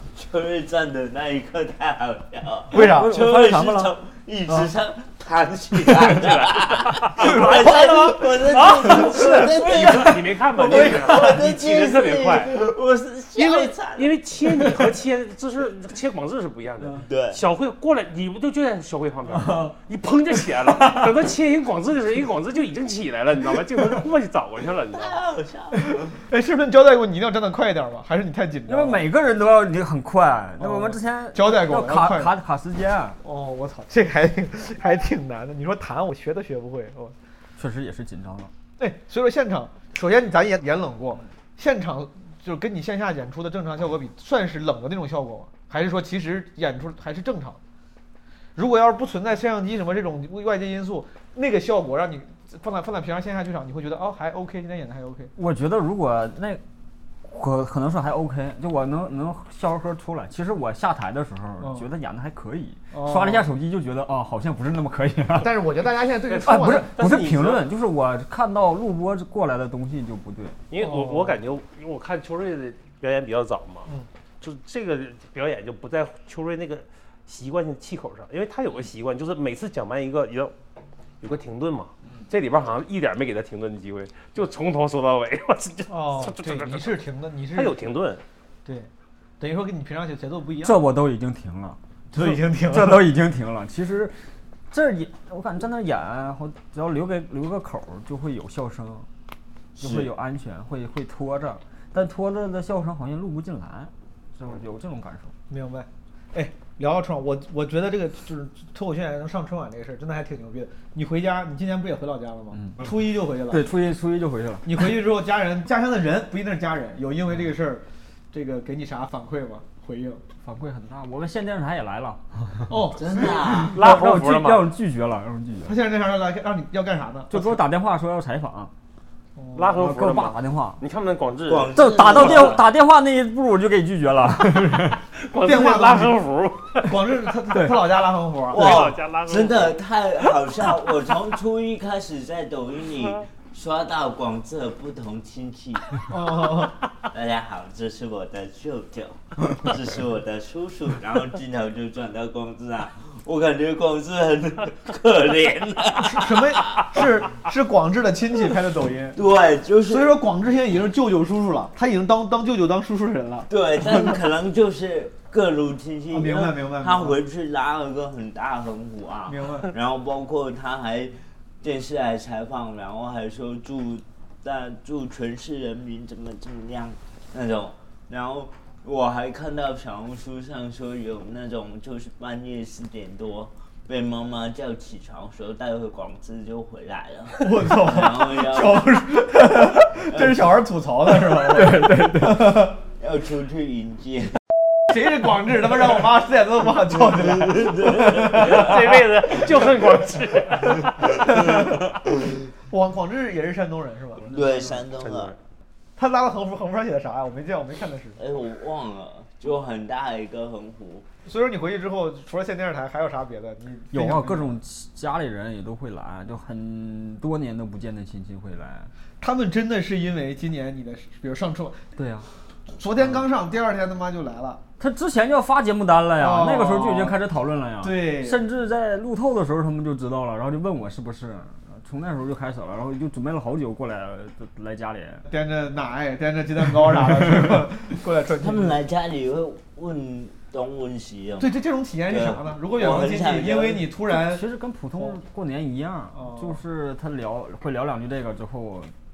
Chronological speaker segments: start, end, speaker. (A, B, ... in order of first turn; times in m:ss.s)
0:00.1-0:14.2 A
0:02.7-0:03.2 B
0:02.8-0:03.9 C
0:05.9-0:12.6 D
0:07.2-0:11.4 B
0:13.4-0:25.2 D
0:17.0-0:17.4 A
0:24.9-0:26.1 A
0:25.9-0:29.0 B
0:28.7-0:33.2 C
0:30.6-0:32.3 B
0:33.2-0:37.1 B
0:37.6-0:38.5 C
0:38.8-0:47.6 B
0:48.6-0:55.3 B
0:55.4-0:56.6 C
0:57.2-1:05.6 C
1:01.6-1:01.9 B
1:02.9-1:03.5 B
1:05.4-1:06.9 B
1:06.3-1:07.7 D
1:06.4-1:10.6 C
1:10.7-1:13.9 D
1:10.8-1:11.4 B
1:14.4-1:20.5 D
1:21.2-1:27.0 D
1:25.9-1:27.8 B
1:27.5-1:28.2 D
1:29.4-1:30.8 B
1:30.6-1:34.2 C
1:32.1-1:33.1 B
1:34.7-1:39.1 C
1:39.8-1:45.3 C
1:45.5-1:53.7 B
1:52.5-1:52.8 C
1:53.5-1:54.8 C
1:54.6-2:00.2 B
2:00.4-2:05.7 C
2:02.7-2:03.6 B
2:03.0-2:03.8 A
2:03.7-2:04.7 D
2:05.6-2:07.6 B
2:07.3-2:08.7 C
2:09.4-2:09.7 B
2:09.5-2:12.6 D
2:09.7-2:10.8 C
2:11.5-2:12.6 A
2:11.7-2:15.0 C
2:15.2-2:17.0 D
2:15.4-2:16.2 B
2:16.8-2:18.7 B
2:17.5-2:17.8 C
2:18.5-2:26.4 A
2:18.5-2:20.4 D
2:26.1-2:26.8 B
2:27.0-2:37.0 A
2:36.0-2:39.2 B
2:39.1-2:40.2 A
2:39.9-2:43.5 B
2:43.5-3:09.1 A
2:46.1-2:47.2 B
2:49.3-2:49.7 B
3:07.4-3:12.8 B
3:09.8-3:10.5 A
3:11.3-3:12.6 C
3:12.9-3:14.4 A
3:14.9-3:18.7 B
3:17.0-3:18.8 A
3:18.2-3:21.2 D
3:20.6-3:21.9 B
3:21.2-3:21.7 A
3:22.7-3:24.8 B
3:24.2-3:25.4 A
3:24.9-3:25.4 D
3:26.0-3:28.2 B
3:28.2-3:31.1 A
3:31.2-3:34.6 B
3:33.9-3:38.9 C
3:39.2-3:41.9 B
3:42.0-3:42.3 C
3:42.7-3:44.6 B
3:44.8-3:55.2 C
3:46.2-3:47.2 B
3:47.8-3:48.4 B
3:55.3-3:58.8 B
3:58.4-4:01.5 A
4:01.4-4:04.4 B
4:02.1-4:03.9 A
4:04.1-4:08.9 C
4:06.1-4:06.6 B